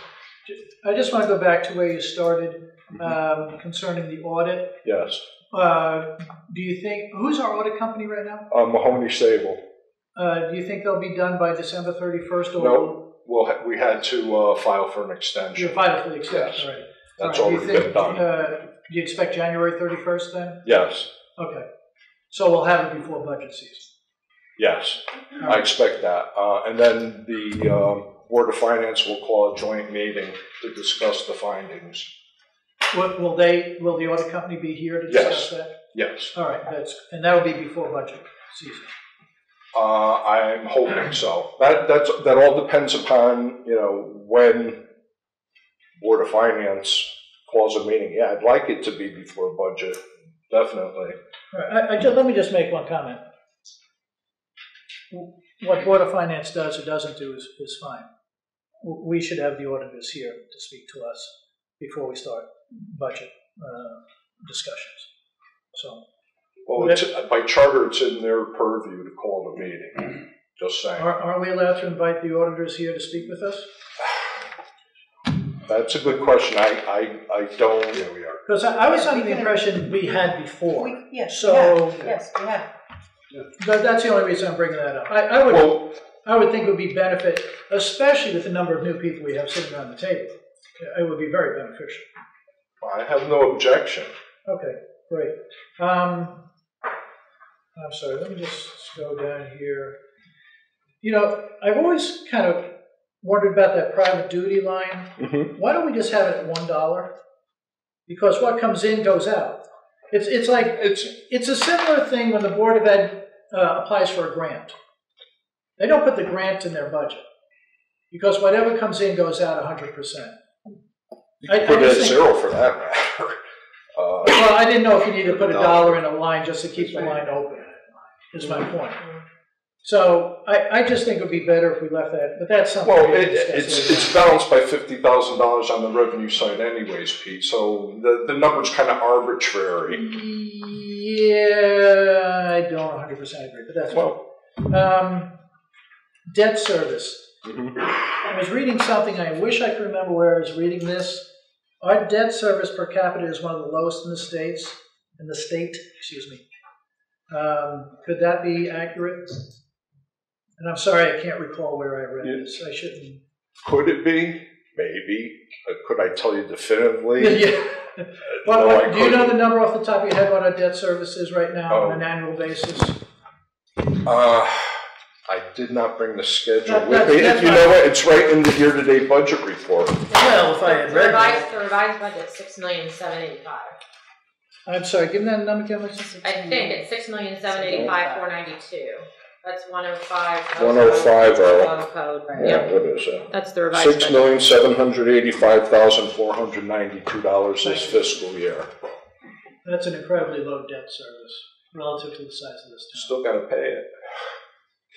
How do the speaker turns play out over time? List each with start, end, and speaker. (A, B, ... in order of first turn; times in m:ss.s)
0:00.4-0:04.7 A
0:04.8-0:05.2 B
0:05.5-0:08.5 A
0:08.5-0:09.6 B
0:10.2-0:13.0 A
0:12.6-0:16.6 B
0:15.6-0:20.6 A
0:17.2-0:18.2 B
0:20.6-0:21.1 B
0:21.4-0:21.6 A
0:22.3-0:23.9 A
0:24.6-0:32.1 B
0:32.9-0:35.7 A
0:35.1-0:36.3 B
0:36.3-0:38.9 A
0:39.7-0:44.8 B
0:46.0-0:51.1 B
0:51.5-0:53.2 A
0:55.1-0:58.1 A
0:58.8-1:05.1 A
1:05.7-1:06.0 A
1:06.7-1:11.1 B
1:11.0-1:13.6 A
1:15.6-1:18.4 B
1:18.4-1:22.1 A
1:19.0-1:19.6 C
1:20.8-1:22.6 C
1:23.6-1:32.0 A
1:25.5-1:25.8 B
1:32.8-1:34.1 B
1:34.4-1:36.4 A
1:37.8-1:40.0 A
1:41.0-1:42.7 A
1:43.2-1:47.1 A
1:48.1-1:49.6 A
1:50.1-1:54.7 A
1:50.8-1:51.1 B
1:55.8-1:57.2 A
1:58.1-2:00.3 A
2:01.4-2:03.4 B
2:01.4-2:02.2 A
2:04.0-2:04.6 B
2:04.2-2:07.8 A
2:05.2-2:06.0 B
2:08.3-2:09.0 A
2:09.8-2:14.2 A
2:12.8-2:20.0 B
2:19.9-2:25.3 A
2:23.9-2:24.2 B
2:26.3-2:27.3 A
2:28.2-2:31.3 A
2:31.8-2:36.4 A
2:37.3-2:39.4 A
2:40.6-2:43.2 A
2:43.6-2:47.4 B
2:47.2-2:53.0 A
2:48.3-2:49.4 B
2:51.7-2:52.0 B
2:54.0-3:00.1 B
2:56.6-2:57.8 A
3:00.1-3:03.8 D
3:00.2-3:01.5 A
3:04.6-3:06.3 A
3:06.2-3:06.9 C
3:06.2-3:12.7 D
3:07.4-3:08.3 C
3:10.6-3:11.7 B
3:12.3-3:18.7 B
3:13.3-3:14.3 D
3:17.6-3:18.1 A
3:19.6-3:23.1 A
3:22.9-3:23.9 B